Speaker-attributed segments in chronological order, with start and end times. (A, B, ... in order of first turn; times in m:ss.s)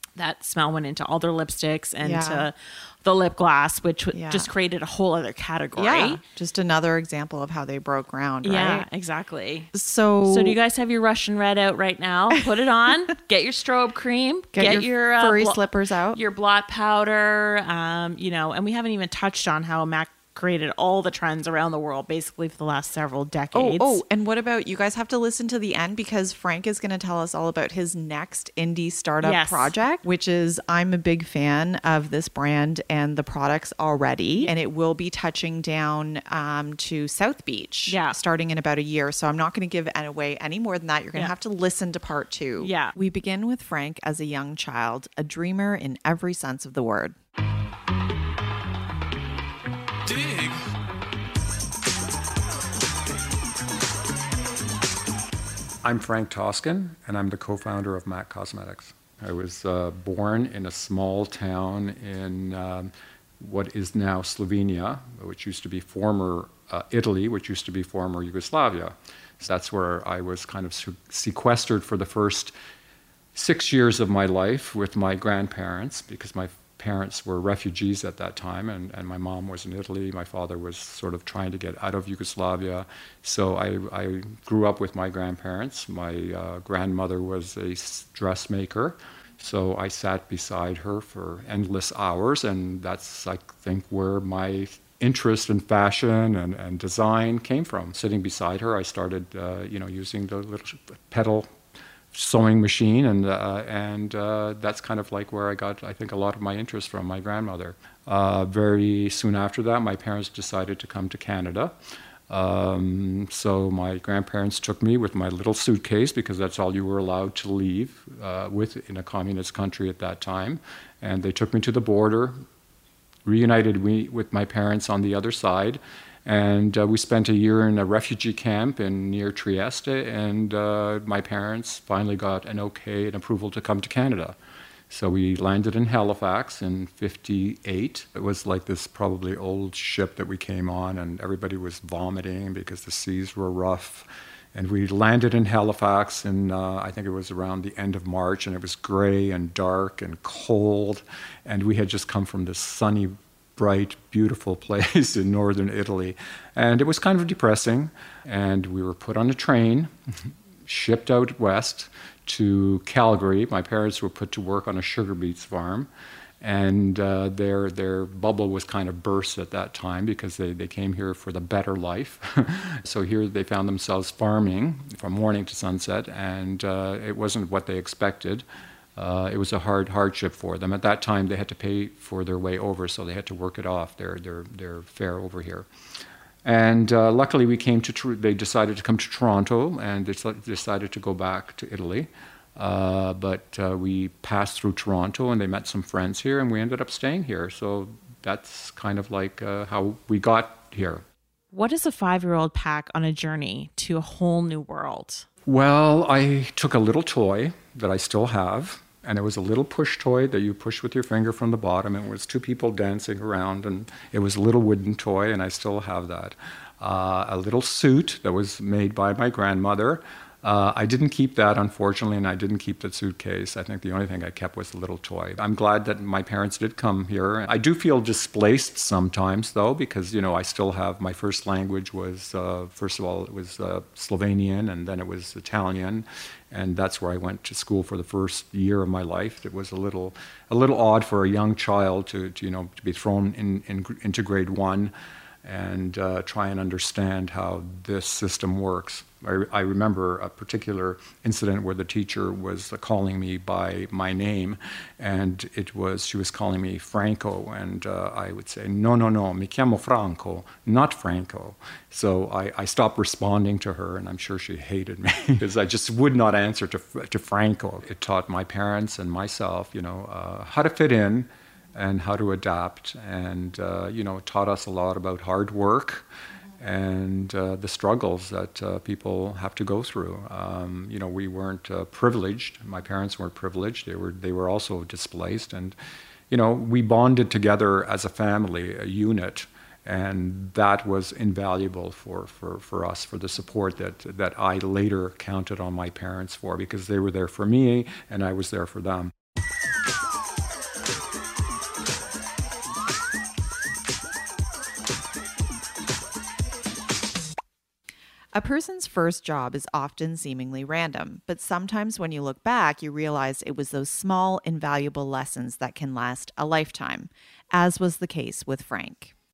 0:00.2-0:06.2 A
0:02.0-0:02.5 B
0:04.1-0:04.5 B
0:05.8-0:08.9 B
0:08.4-0:09.7 A
0:09.7-0:10.6 B
0:10.3-0:15.6 A
0:14.5-0:16.2 B
0:16.1-0:24.0 A
0:23.5-0:47.2 B
0:29.2-0:29.7 A
0:37.9-0:38.2 A
0:42.6-0:43.0 A
0:55.8-1:12.5 C
1:13.4-1:41.5 C
1:42.1-1:51.8 C
1:52.3-2:02.4 C
2:03.2-2:14.4 C
2:14.9-2:39.9 C
2:40.7-2:45.9 C
2:46.4-2:58.4 C
2:59.0-3:05.7 C
3:06.4-3:21.0 C
3:21.5-3:25.3 A
3:25.5-4:04.9 C
4:05.4-4:36.0 C
4:36.6-4:45.8 C
4:46.3-4:59.1 C
5:08.3-5:19.1 B